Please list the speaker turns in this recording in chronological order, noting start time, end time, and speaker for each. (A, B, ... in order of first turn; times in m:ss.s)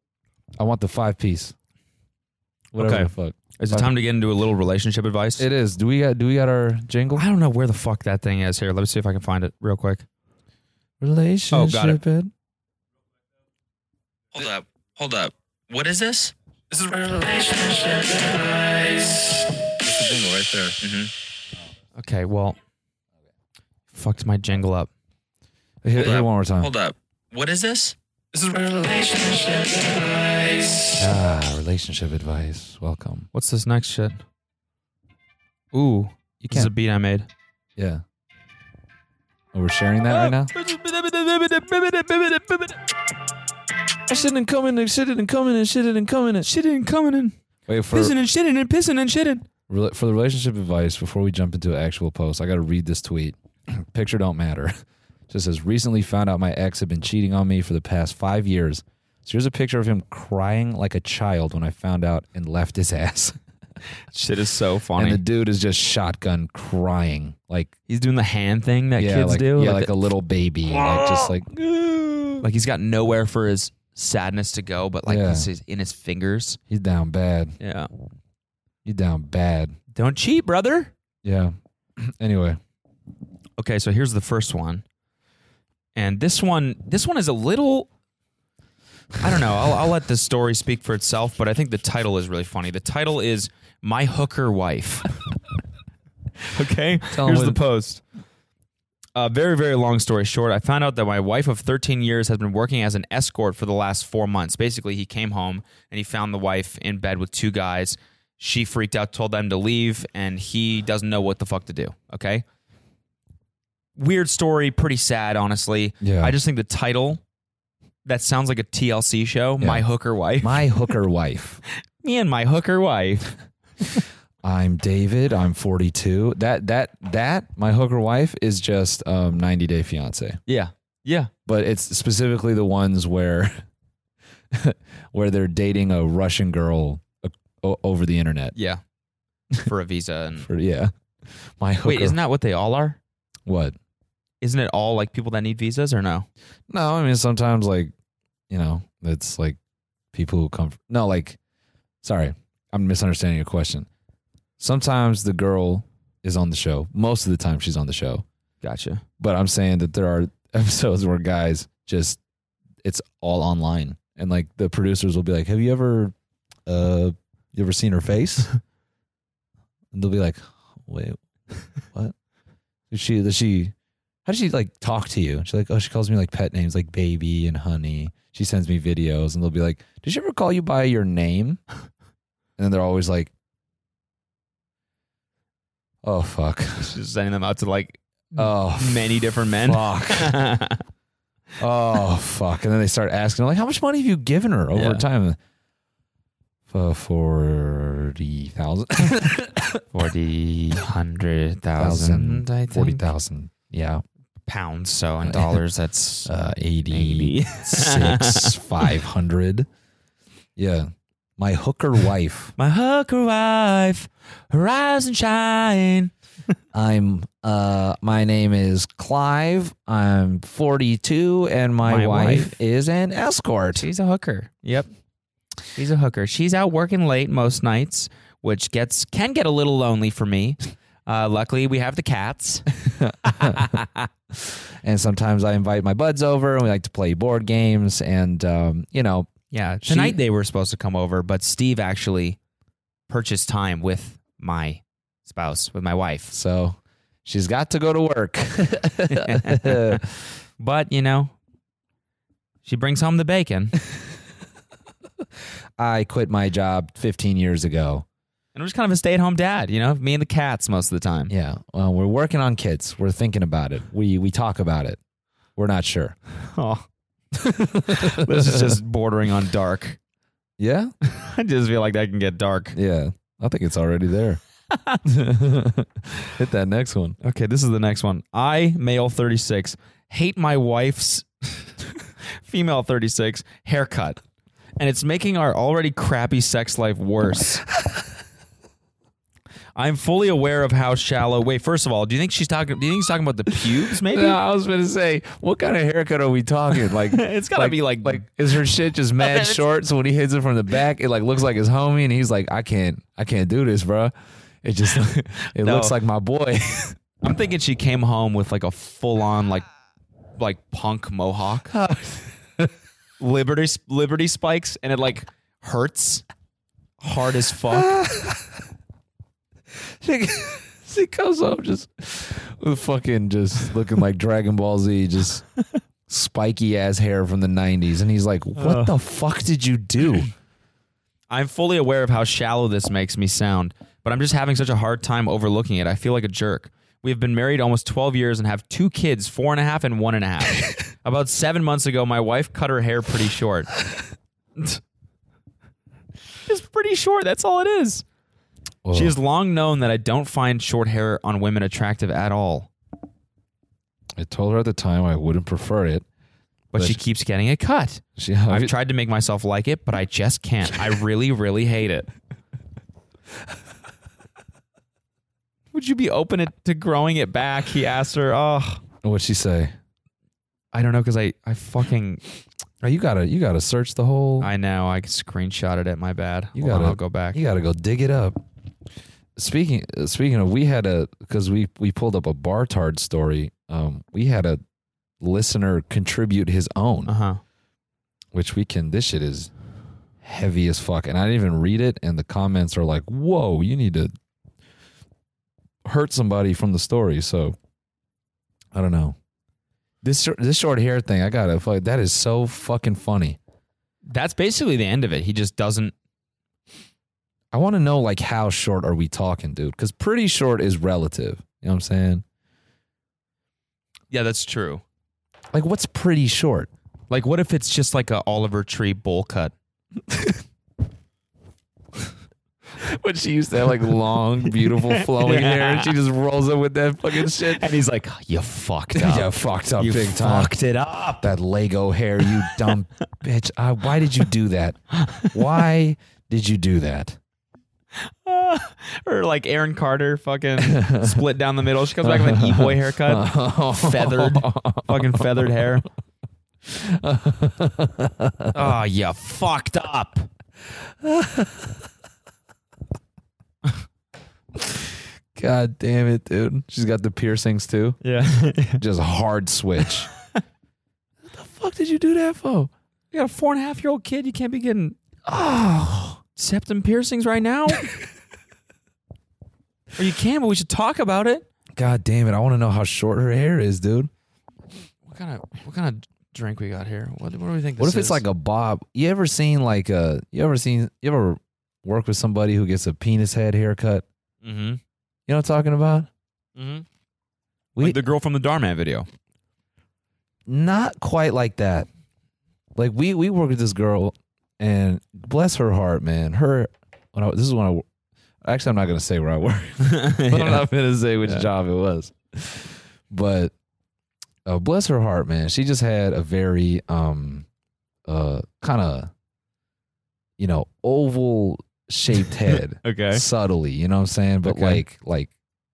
0:00.6-0:01.5 A
0:02.7-0:03.9 A
0:02.8-0:05.5 B
0:05.4-0:07.2 A
0:07.1-0:10.1 B
0:11.0-0:12.3 A
0:11.5-0:12.0 B
0:14.3-0:21.1 C
0:22.0-0:22.6 B
0:23.9-0:24.9 B
0:25.8-0:26.7 A
0:26.0-0:30.9 C
0:30.9-0:33.3 A
0:33.3-0:34.2 B
0:35.7-0:37.3 B
0:36.4-0:36.7 A
0:37.8-0:38.0 A
0:39.5-0:40.5 A
0:40.0-0:42.8 B
0:44.1-0:46.5 A
0:46.4-0:47.3 B
0:47.7-0:48.1 A
0:47.9-0:49.4 B
0:49.7-0:54.7 A
0:55.3-1:03.4 A
1:04.1-1:05.2 B
1:05.0-1:07.7 A
1:07.9-1:10.0 B
1:09.0-1:12.4 A
1:12.4-1:16.6 B
1:15.0-1:15.5 A
1:16.7-1:17.5 A
1:17.6-1:17.9 B
1:18.8-1:19.7 A
1:19.9-1:20.9 B
1:21.2-1:22.6 A
1:23.6-1:24.8 B
1:25.9-1:27.9 B
1:29.2-1:35.1 B
1:36.5-1:38.0 B
1:37.1-1:37.6 A
1:39.1-1:52.4 B
1:54.0-1:57.2 B
1:56.0-1:56.3 A
1:58.0-2:00.7 B
2:00.4-2:01.6 A
2:02.0-2:03.3 B
2:04.4-2:10.4 A
2:10.5-2:11.3 B
2:11.5-2:13.6 A
2:14.5-2:18.5 A
2:18.5-2:18.8 B
2:19.6-2:20.5 B
2:20.4-2:20.9 A
2:21.6-2:22.2 A
2:21.8-2:23.0 B
2:23.4-2:23.8 A
2:24.4-2:26.3 B
2:26.7-2:27.9 A
2:28.5-2:29.6 A
2:30.1-2:31.4 A
2:32.0-2:33.9 A
2:34.6-2:38.2 A
2:38.6-2:39.0 B
2:39.2-2:42.2 A
2:42.8-2:46.1 A
2:46.6-2:48.5 A
2:49.9-2:51.2 A
2:51.9-2:52.1 A
2:52.9-2:53.7 A
2:54.2-3:01.6 A
3:02.6-3:03.3 A
3:06.0-3:07.0 A
3:06.8-3:10.8 B
3:08.4-3:10.4 A
3:11.6-3:15.4 A
3:14.7-3:15.0 B
3:16.7-3:19.8 A
3:19.9-3:23.0 B
3:21.8-3:24.0 A
3:24.5-3:26.3 B
3:25.2-3:25.6 A
3:26.2-3:29.7 A
3:26.9-3:28.9 B
3:30.6-3:32.5 A
3:32.6-3:36.1 B
3:36.7-3:43.8 A
3:41.8-3:42.5 B
3:43.7-3:44.9 B
3:45.7-3:52.7 B
3:52.8-3:53.8 A
3:53.2-3:54.1 B
3:54.3-3:59.3 A
3:59.5-4:02.4 B
3:59.8-4:00.2 A
4:03.1-4:06.3 B
4:06.3-4:10.1 A
4:09.1-4:10.0 B
4:10.6-4:11.3 B
4:12.6-4:13.7 B
4:15.8-4:18.0 A
4:18.5-4:21.3 B
4:21.3-4:25.0 A
4:25.6-4:26.2 A
4:26.4-4:26.8 B
4:27.3-4:28.8 A
4:27.9-4:30.0 B
4:30.6-4:30.9 A
4:31.1-4:32.8 B
4:32.7-4:34.4 A
4:34.7-4:35.0 B
4:35.0-4:37.2 A
4:37.2-4:44.2 B
4:44.8-4:47.6 B
4:49.7-4:54.4 B
4:53.9-5:07.0 A
4:57.0-4:58.3 B
4:59.2-4:59.6 B
5:05.6-5:06.0 B
5:07.2-5:09.6 B
5:10.4-5:11.7 B
5:11.7-5:12.7 A
5:13.2-5:16.2 B
5:17.0-5:17.9 B
5:17.7-5:18.6 A
5:20.0-5:25.4 A
5:26.1-5:30.3 A
5:28.6-5:28.9 B
5:31.3-5:43.7 B
5:46.4-5:48.0 B
5:48.8-5:49.1 A
5:48.9-5:52.7 B
5:54.2-5:56.0 A
5:56.7-6:02.1 B
5:58.2-5:58.7 A
6:05.7-6:08.8 B
6:09.0-6:09.7 A
6:10.7-6:12.2 B
6:12.8-6:14.5 A
6:14.4-6:17.4 B
6:16.5-6:18.4 A
6:19.4-6:24.6 A
6:25.2-6:27.1 A
6:27.0-6:27.4 B
6:28.3-6:29.5 A
6:30.2-6:34.1 A
6:35.8-6:37.6 A
6:38.7-6:39.2 A
6:40.0-6:43.4 A
6:44.1-6:45.9 B
6:47.5-6:52.2 A
6:54.1-6:54.8 B
6:55.5-6:56.7 A
6:57.1-6:59.5 B
7:00.1-7:00.4 A
7:02.8-7:07.7 A
7:04.6-7:06.0 B
7:07.2-7:11.3 B
7:08.9-7:10.5 A
7:11.2-7:17.2 A
7:15.0-7:15.3 B
7:18.0-7:25.8 B
7:20.6-7:21.2 A
7:22.0-7:25.5 A
7:26.6-7:28.8 A
7:28.5-7:30.3 B
7:30.8-7:31.9 A
7:34.6-7:38.0 A
7:38.0-7:38.8 B
7:38.8-7:40.1 A
7:41.2-7:42.7 A
7:43.1-7:45.0 B
7:45.2-7:46.2 A
7:46.3-7:47.9 B
7:50.0-7:51.4 B
7:51.7-7:54.1 A
7:55.0-7:58.2 B
7:57.8-8:04.0 A
8:04.4-8:04.8 B
8:05.3-8:06.1 A
8:06.6-8:06.8 B
8:07.7-8:08.0 A
8:07.8-8:09.1 B
8:10.5-8:11.9 A
8:12.8-8:17.8 A
8:18.4-8:23.5 A
8:19.8-8:20.7 B
8:24.4-8:27.4 A
8:28.0-8:29.1 A
8:30.4-8:35.3 A
8:32.5-8:33.2 B
8:34.4-8:34.8 B